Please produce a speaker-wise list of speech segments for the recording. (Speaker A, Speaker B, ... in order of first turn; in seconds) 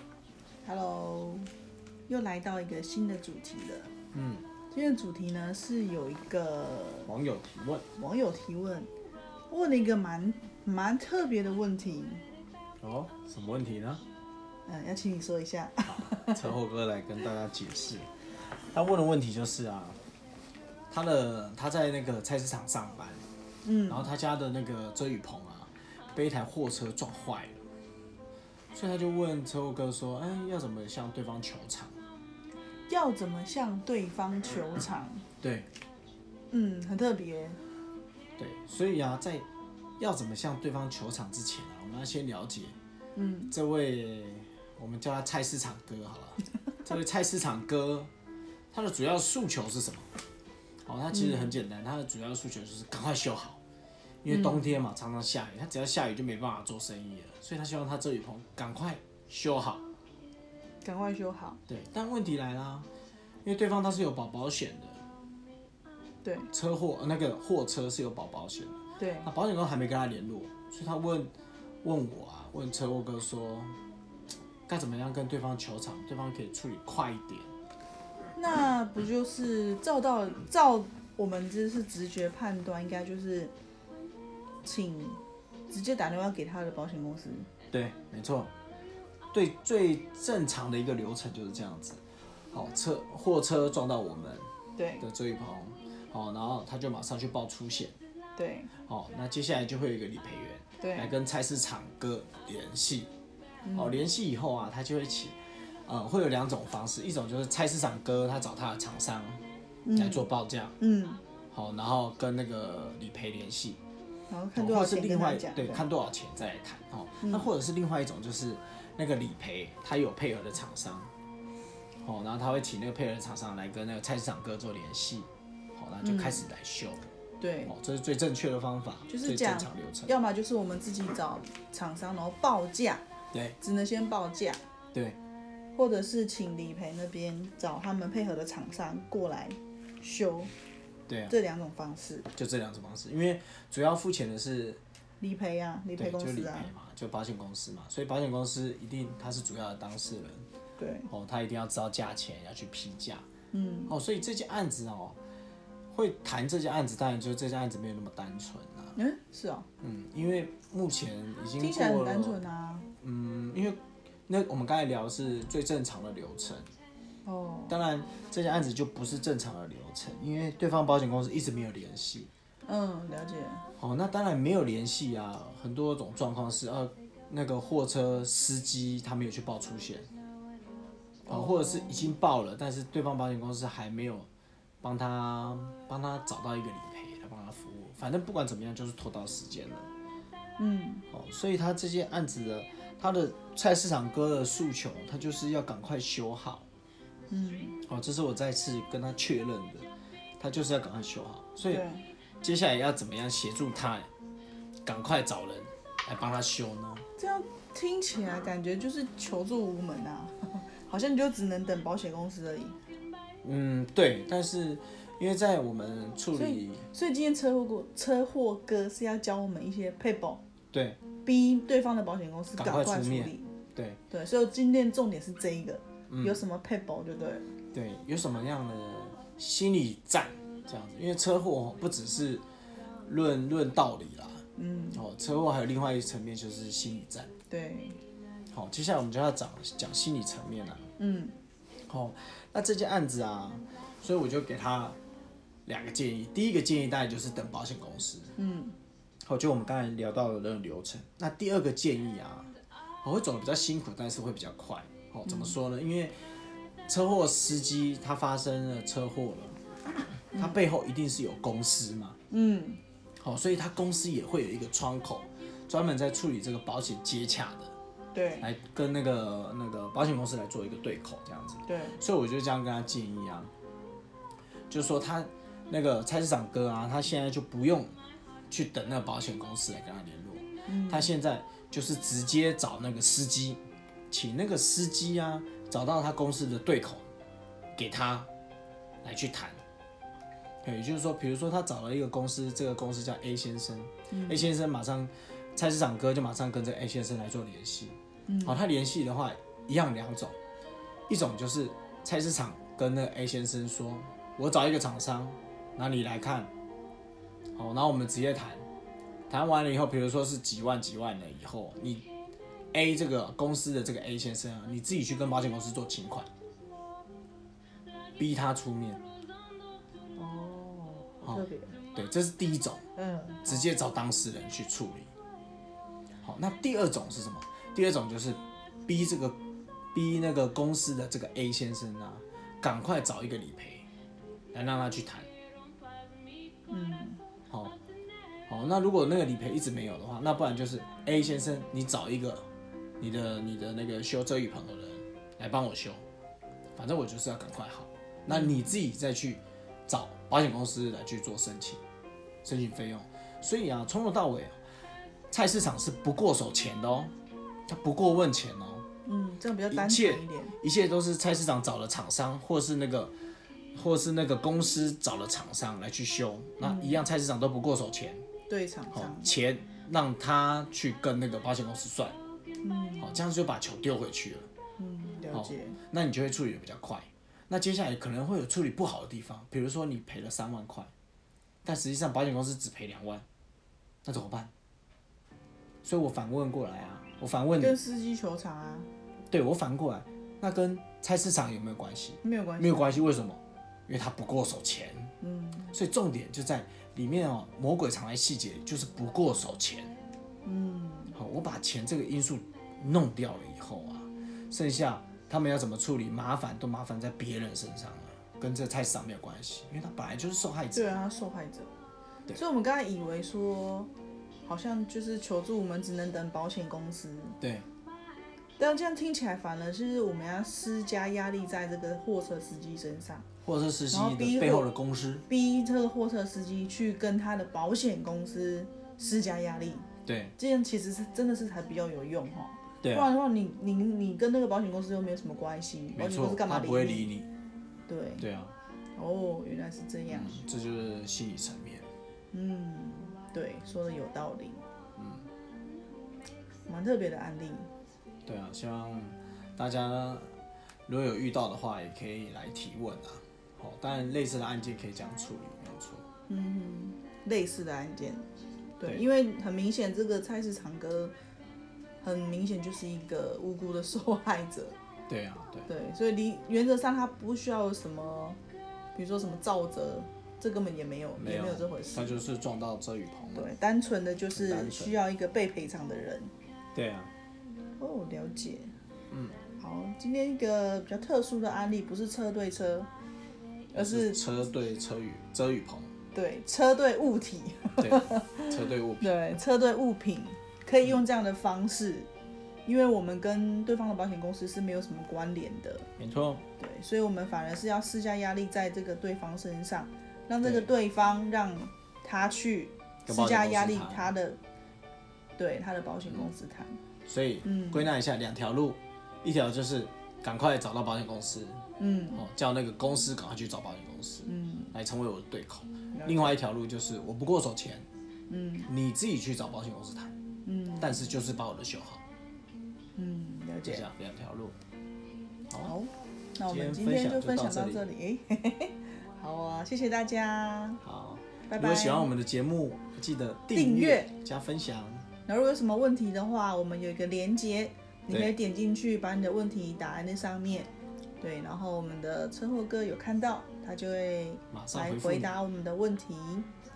Speaker A: 0.6-1.5, 2.1-3.9, 4.7-7.1, 8.0-8.9, 9.5-12.2, 14.7-16.5, 23.6-24.1, 32.9-35.2, 36.5-37.6, 43.1-43.5, 51.1-51.6, 54.3-54.8, 60.8-61.6, 66.2-66.5, 69.0-69.3, 78.3-83.5, 84.6-87.5, 94.8-95.0, 98.3-98.7, 100.8-101.1, 103.6-104.0, 109.8-110.3, 110.8-111.2, 114.3-115.8, 117.2-117.5, 126.0-126.5, 127.4-127.7, 129.1-133.0, 133.6-134.6, 135.7-140.5, 141.3-142.3, 145.2-146.7, 150.8-151.1, 153.5-153.9, 158.9-159.7, 161.6-162.9, 167.2-167.8, 172.7-173.7, 181.3-182.1, 190.6-191.1, 197.3-197.8, 201.7-202.0, 207.2-212.8, 216.3-220.4, 221.1-223.6, 224.1-227.5, 234.6-235.0, 237.5-238.0, 241.0-241.4, 248.3-248.8, 255.2-255.6, 260.3-260.6, 262.3-262.8, 268.1-268.4, 271.6-272.0, 280.6-281.1, 294.1-294.5, 298.3-298.6, 320.1-321.8, 322.9-323.7, 336.7-337.2, 348.3-348.8, 359.0-360.6, 366.6-367.0, 368.5-369.3, 372.6-373.2, 374.8-375.8, 387.6-388.9, 392.2-393.1, 395.2-395.7, 400.4-401.1, 410.7-411.7, 412.3-413.9, 414.4-417.4, 418.6-423.2, 423.9-424.7, 425.2-429.9, 430.4-437.1, 437.9-438.2, 438.9-440.4, 442.3-444.6, 446.7-447.7, 456.3-458.2, 458.8-461.1, 462.0-464.8, 465.6-468.4, 468.9-472.2, 473.3-476.3, 477.8-478.8, 479.5-482.9, 483.7-484.2, 486.1-492.1, 492.6-495.9, 496.5-504.4, 505.4-506.8, 507.4-507.9, 511.8-512.2, 514.2-514.7, 515.9-516.4, 518.3-518.7, 520.4-521.1, 523.0-523.9, 525.6-530.8, 531.5-532.1, 533.5-534.1, 535.2-546.5
Speaker B: 4.1-4.5, 7.0-7.9, 12.8-14.0, 15.8-20.0, 20.9-23.2, 23.9-27.7, 28.7-31.9, 35.4-35.7, 38.4-39.5, 40.0-42.7, 43.5-48.1, 48.7-50.1, 50.8-53.6, 54.2-59.8, 61.7-62.9, 63.4-65.0, 66.5-71.3, 71.8-73.8, 74.7-77.5, 87.7-88.5, 89.3-97.9, 98.7-103.1, 103.7-110.8, 111.5-113.8, 114.5-121.1, 122.0-127.1, 127.7-130.1, 133.3-133.6, 134.9-135.2, 141.1-141.3, 142.3-144.8, 146.0-150.5, 151.1-153.2, 153.9-155.2, 155.9-158.9, 159.8-162.4, 163.0-166.7, 167.7-172.3, 173.8-180.1, 181.2-184.3, 184.8-189.9, 191.1-196.7, 197.8-199.9, 200.4-201.9, 202.4-204.1, 204.8-207.1, 213.4-216.9, 220.7-221.1, 222.6-224.0, 226.1-226.4, 227.7-232.4, 233.0-237.3, 238.5-240.9, 241.8-245.0, 245.7-248.3, 249.2-259.6, 260.3-262.2, 263.2-267.8, 268.4-273.5, 274.7-277.9, 278.5-287.0, 287.8-288.3, 289.0-289.6, 290.6-300.4, 301.1-306.5, 307.6-308.6, 309.3-312.1, 312.7-316.3, 318.2-319.0, 321.2-322.9, 323.4-325.1, 326.2-329.4, 329.9-333.9, 334.5-335.3, 337.5-337.8, 338.5-342.5, 343.0-346.0, 346.8-351.8, 352.4-354.6, 355.3-357.1, 357.6-358.9, 359.7-363.1, 363.7-368.3, 368.9-372.2, 373.0-374.5, 375.3-380.9, 381.6-383.2, 384.0-384.5, 385.8-387.8, 389.3-395.1, 395.7-399.9, 401.1-411.0, 417.4-417.7, 423.4-425.2, 430.0-430.3, 432.8-433.1, 435.9-437.3, 438.2-438.5, 440.1-441.9, 445.0-445.3, 448.2-456.1, 465.1-465.7, 471.1-473.5, 474.3-475.0, 476.7-477.1, 479.1-479.4, 483.7-485.9, 487.8-489.4, 496.0-496.4, 500.4-500.7, 503.0-504.1, 507.0-517.9, 518.7-520.1, 520.8-522.0, 523.6-524.6, 525.5-525.7, 526.4-527.9, 530.8-535.1, 538.1-538.4, 544.5-545.4